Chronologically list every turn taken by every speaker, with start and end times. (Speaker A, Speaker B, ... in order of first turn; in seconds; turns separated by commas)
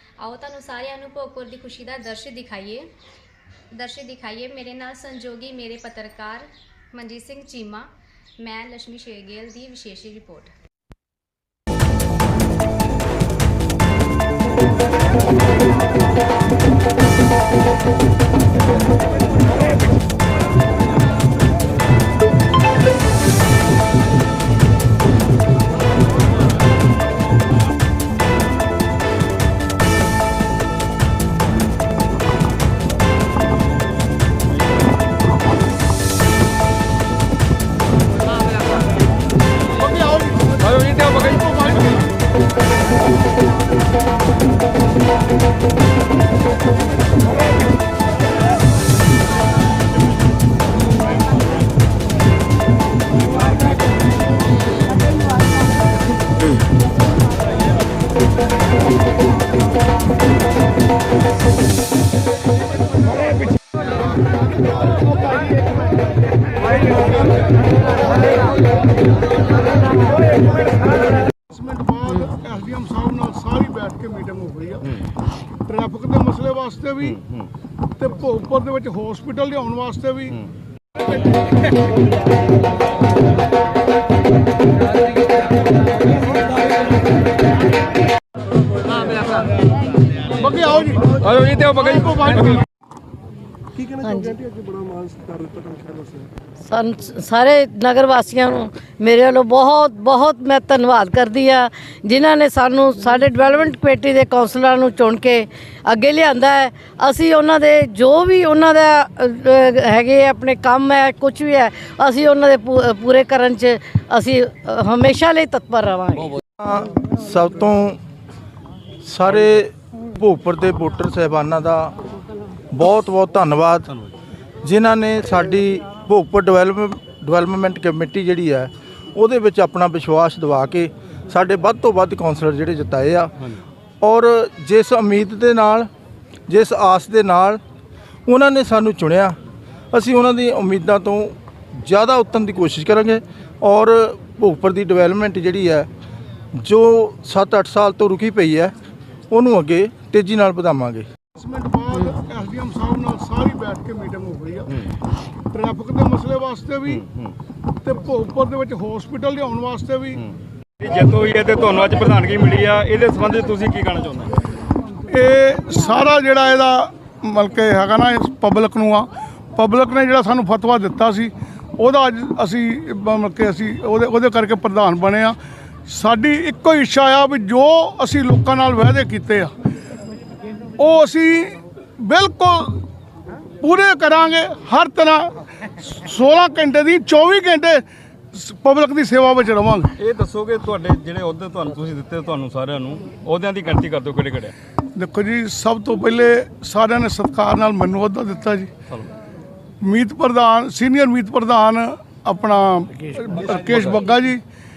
Speaker A: 0.2-2.9, Speaker A: 3.7-10.5, Speaker B: 40.8-41.4, Speaker C: 71.3-75.0, Speaker C: 75.7-77.2, Speaker C: 78.0-80.5, Speaker C: 90.3-92.6, Speaker B: 91.3-92.6, Speaker D: 94.0-94.3, Speaker D: 96.7-116.3, Speaker E: 116.6-118.0, Speaker E: 119.0-121.9, Speaker E: 122.7-124.0, Speaker E: 124.6-135.9, Speaker E: 136.5-137.6, Speaker E: 138.2-139.4, Speaker E: 139.9-145.9, Speaker E: 146.5-148.7, Speaker E: 149.3-151.1, Speaker C: 151.3-154.8, Speaker C: 155.5-157.0, Speaker B: 157.0-157.3, Speaker C: 157.8-160.2, Speaker B: 160.8-164.4, Speaker C: 165.1-179.5, Speaker C: 180.8-182.8, Speaker C: 183.6-189.9, Speaker B: 190.0-194.5, Speaker C: 194.9-198.7, Speaker C: 199.8-204.4